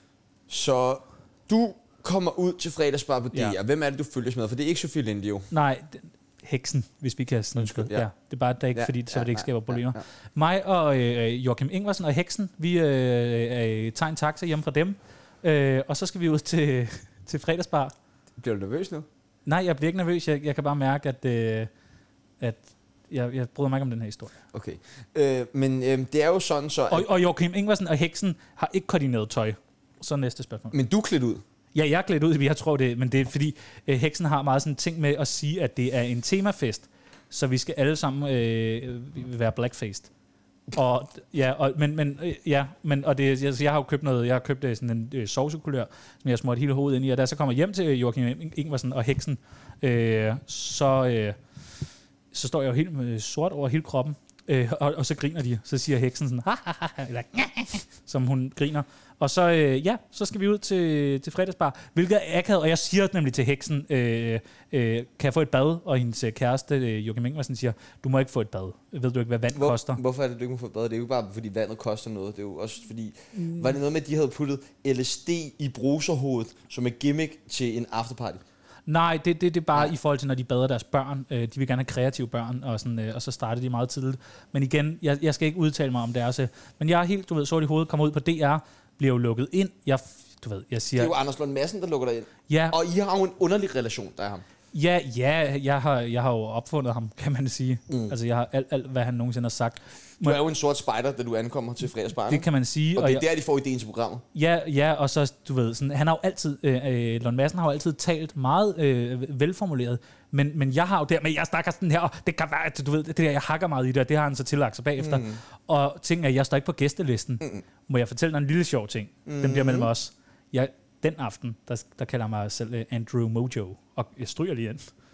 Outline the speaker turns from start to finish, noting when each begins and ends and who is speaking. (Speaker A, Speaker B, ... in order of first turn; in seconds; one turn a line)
Speaker A: 0.5-5.5
Speaker B: 5.5-17.9
Speaker A: 7.6-8.1
Speaker A: 8.7-10.0
Speaker A: 18.4-19.1
Speaker B: 19.4-21.7
Speaker B: 22.4-24.3
Speaker A: 24.5-27.1
Speaker B: 26.9-30.7
Speaker A: 30.7-31.4
Speaker B: 31.7-40.1
Speaker B: 40.7-51.4
Speaker B: 52.3-70.0
Speaker A: 69.5-78.4
Speaker B: 73.3-73.7
Speaker B: 78.9-91.1
Speaker A: 91.0-94.4
Speaker B: 92.5-92.8
Speaker B: 94.7-100.4
Speaker A: 97.9-98.1
Speaker A: 100.2-104.2
Speaker B: 102.3-103.2
Speaker B: 104.3-124.8
Speaker A: 115.0-115.4
Speaker A: 119.3-119.9